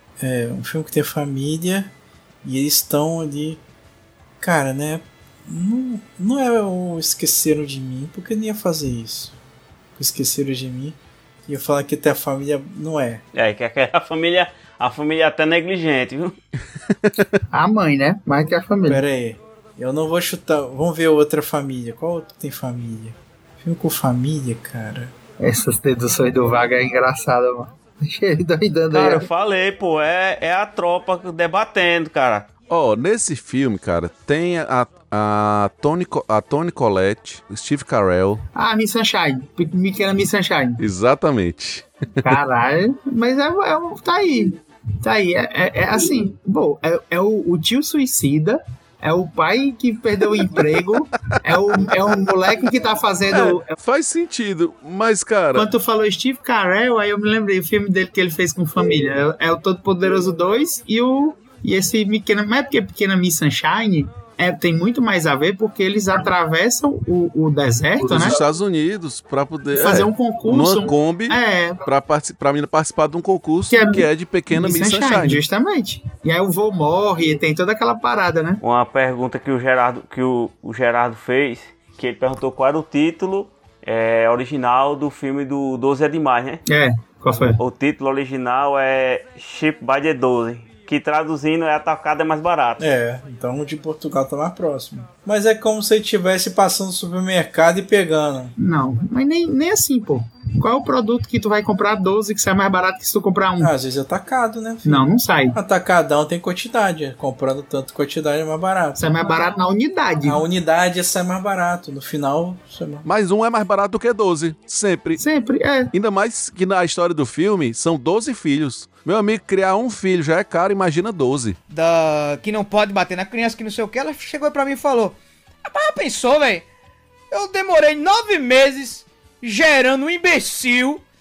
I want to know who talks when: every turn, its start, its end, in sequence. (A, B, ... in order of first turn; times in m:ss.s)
0:00.2-0:01.9 A
0:02.4-0:03.6 A
0:04.4-0:09.3 A
0:10.0-0:13.2 A
0:13.3-0:16.4 B
0:17.5-0:19.0 C
0:18.9-0:25.1 A
0:25.4-0:29.3 C
0:28.9-0:32.5 B
0:32.7-0:38.4 D
0:38.5-0:40.8 C
0:40.8-0:42.3 D
0:42.2-0:53.7 C
0:53.3-0:55.7 D
0:55.5-1:08.4 C
1:08.0-1:15.4 D
1:09.7-1:11.8 C
1:13.7-1:18.6 C
1:18.6-1:26.6 B
1:26.7-1:27.6 C
1:27.6-1:32.8 B
1:32.8-1:38.5 A
1:38.6-1:43.7 C
1:43.6-1:49.0 A
1:44.8-1:45.6 C
1:49.0-1:50.4 C
1:50.2-1:53.0 A
1:53.0-1:55.2 D
1:55.2-1:55.9 C
1:55.9-2:01.6 D
2:01.7-2:06.6 E
2:07.3-2:11.0 E